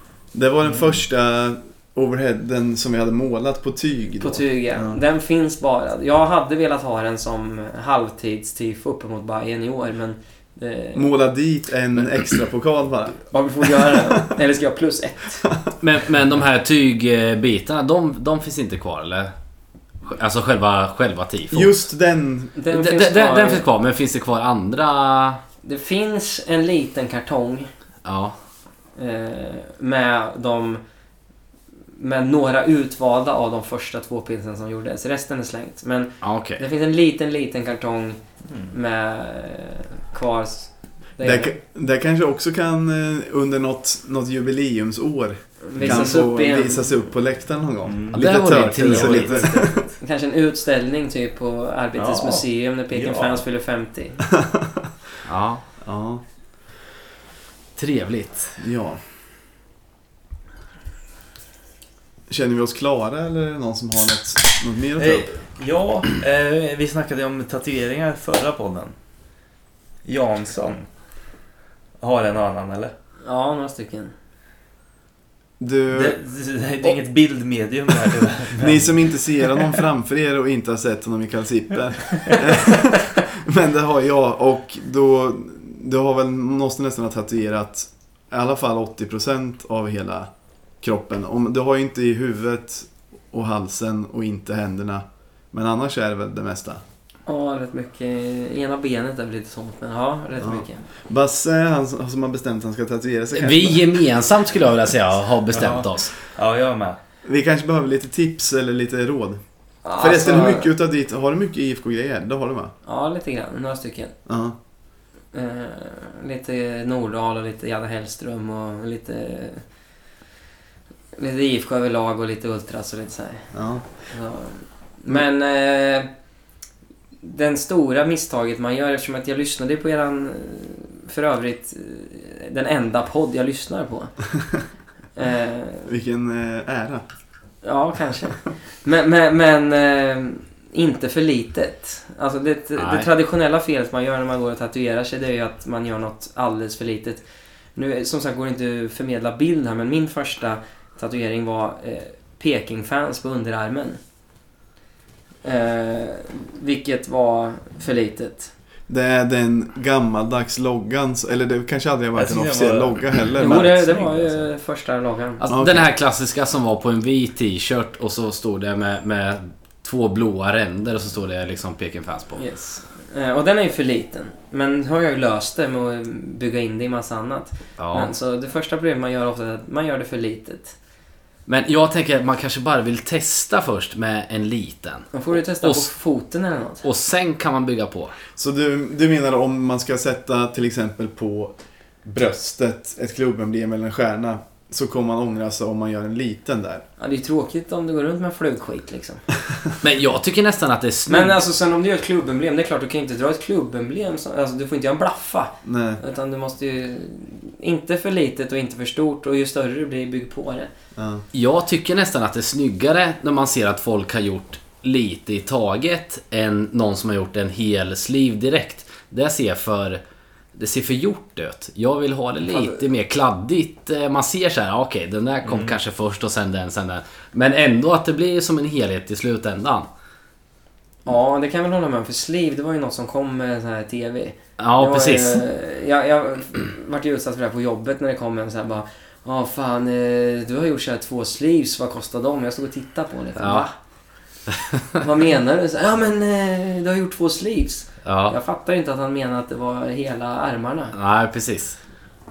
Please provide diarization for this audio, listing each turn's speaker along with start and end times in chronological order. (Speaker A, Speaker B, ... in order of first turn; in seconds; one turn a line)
Speaker A: 0.3-5.0
Speaker B: 0.6-0.9
Speaker C: 4.2-11.1
Speaker A: 10.9-13.3
Speaker C: 13.3-15.5
Speaker D: 15.8-19.3
Speaker D: 20.0-21.7
Speaker A: 21.5-22.6
Speaker C: 22.6-23.6
Speaker D: 22.7-25.4
Speaker C: 25.6-27.7
Speaker D: 28.0-28.4
Speaker C: 28.9-30.8
Speaker C: 31.9-41.5
Speaker D: 36.2-36.6
Speaker B: 38.4-38.7
Speaker A: 41.2-49.8
Speaker C: 45.6-46.9
Speaker B: 45.8-46.1
Speaker B: 47.8-49.7
Speaker D: 48.1-49.6
Speaker C: 49.6-54.2
Speaker B: 52.0-53.4
Speaker A: 54.4-54.9
Speaker D: 55.2-55.6
Speaker A: 55.8-56.2
Speaker D: 57.8-58.6
Speaker A: 58.6-59.0
Speaker A: 62.3-65.3
Speaker B: 65.0-68.9
Speaker B: 70.0-70.9
Speaker B: 72.0-72.9
Speaker C: 73.2-74.1
Speaker A: 75.6-76.2
Speaker B: 75.9-78.9
Speaker A: 78.5-96.8
Speaker C: 97.2-100.9
Speaker A: 100.4-104.0
Speaker D: 103.3-106.2
Speaker B: 105.5-107.0
Speaker A: 107.2-109.4
Speaker C: 109.8-110.7
Speaker A: 110.0-112.7
Speaker C: 112.8-114.1
Speaker A: 114.2-114.5
Speaker C: 115.3-119.7
Speaker C: 121.1-126.1
Speaker A: 123.5-123.9
Speaker C: 127.2-134.2
Speaker C: 135.1-135.9
Speaker A: 135.8-137.1
Speaker C: 137.6-154.0
Speaker D: 142.8-143.1
Speaker C: 155.4-158.5
Speaker A: 158.9-164.0
Speaker B: 162.1-164.5
Speaker C: 163.4-165.4
Speaker D: 165.4-172.4
Speaker A: 165.5-165.8
Speaker C: 172.4-180.8
Speaker D: 177.8-178.1
Speaker D: 181.4-185.9
Speaker C: 185.1-186.8
Speaker D: 186.8-188.1
Speaker A: 188.3-196.8
Speaker C: 197.0-199.2
Speaker D: 199.8-201.4
Speaker C: 201.1-210.7
Speaker A: 205.6-206.0
Speaker A: 210.9-211.2
Speaker D: 211.3-220.0
Speaker D: 220.5-229.9
Speaker C: 222.4-222.8
Speaker B: 225.4-225.8
Speaker C: 231.0-243.7
Speaker D: 234.6-235.4
Speaker D: 243.3-243.7
Speaker C: 245.0-250.9
Speaker D: 248.0-248.3
Speaker D: 250.9-251.8